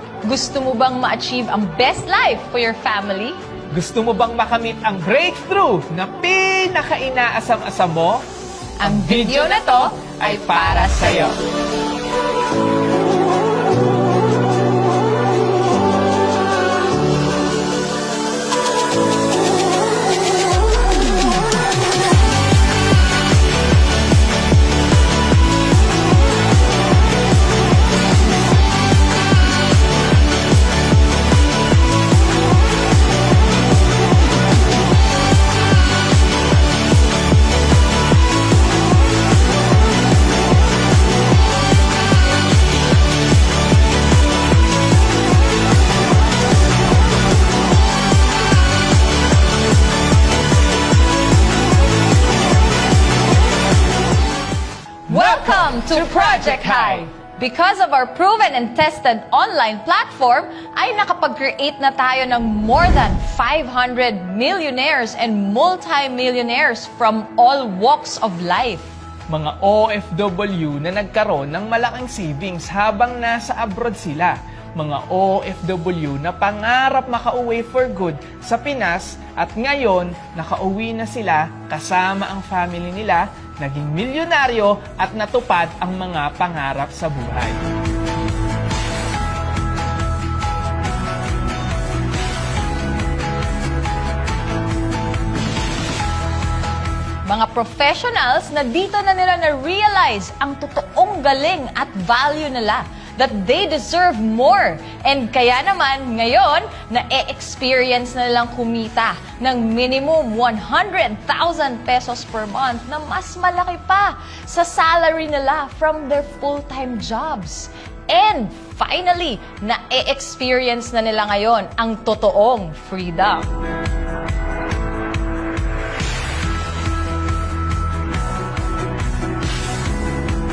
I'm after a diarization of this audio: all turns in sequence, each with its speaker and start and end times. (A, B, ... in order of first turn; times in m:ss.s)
0:00.2-0:03.4 A
0:03.7-0:08.2 B
0:08.8-0:11.4 A
0:08.8-0:11.4 B
0:55.1-0:57.1 B
0:55.1-1:08.9 A
1:09.3-1:27.6 B
1:37.2-2:03.5 A